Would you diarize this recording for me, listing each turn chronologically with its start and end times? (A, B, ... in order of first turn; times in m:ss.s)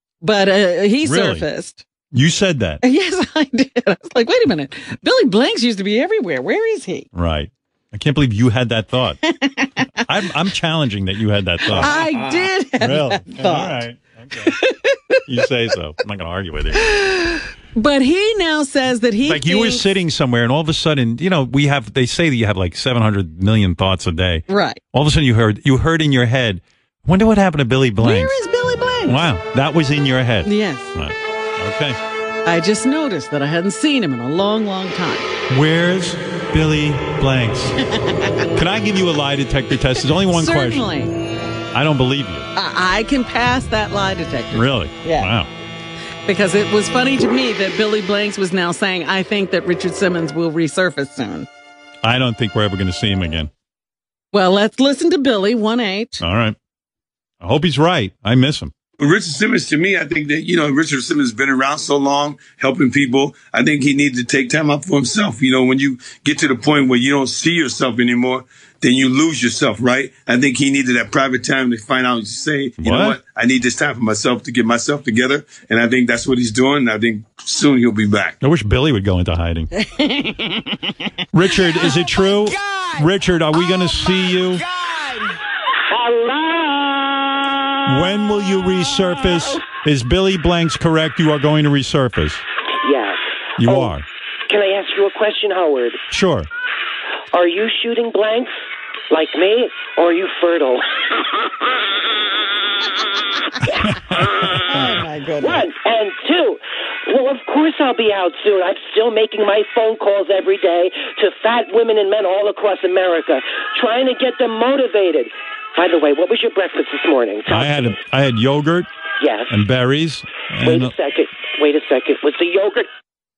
0:00.2-0:01.8 A
0:01.0-0:01.4 B
0:02.1-0:02.8 B
0:02.8-0:07.1 A
0:07.1-0:09.2 B
0:09.3-0:09.9 A
0:10.0-0:14.5 B
0:11.7-0:13.8 A
0:14.4-0:15.2 A
0:15.2-0:16.9 B
0:16.8-0:19.9 A
0:19.2-0:28.4 B
0:24.5-0:24.8 A
0:28.0-0:29.2 A
0:29.0-0:32.0 B
0:30.4-0:30.9 A
0:32.4-0:35.3 A
0:35.5-0:37.8 B
0:38.0-0:38.4 A
0:38.5-0:40.9 B
0:40.3-0:41.1 A
0:41.7-0:42.5 B
0:42.5-0:45.3 A
0:44.5-0:45.5 B
0:46.3-0:51.5 A
0:52.0-0:53.5 B
0:54.3-0:56.2 A
0:56.2-0:56.6 B
0:57.4-0:58.7 B
0:59.0-1:18.4 C
1:12.8-1:13.2 B
1:18.4-1:19.7 B
1:19.8-1:20.9 A
1:21.3-1:24.6 B
1:25.9-1:27.7 D
1:27.8-1:32.4 B
1:32.8-1:36.0 D
1:33.6-1:34.0 B
1:36.1-1:36.5 B
1:37.3-1:38.5 D
1:39.1-1:40.8 D
1:43.9-1:45.0 B
1:44.7-1:45.6 A
1:45.4-1:57.8 D
1:57.5-1:58.9 B
1:59.2-1:59.5 D
1:59.5-2:00.9 B
2:00.6-2:02.9 D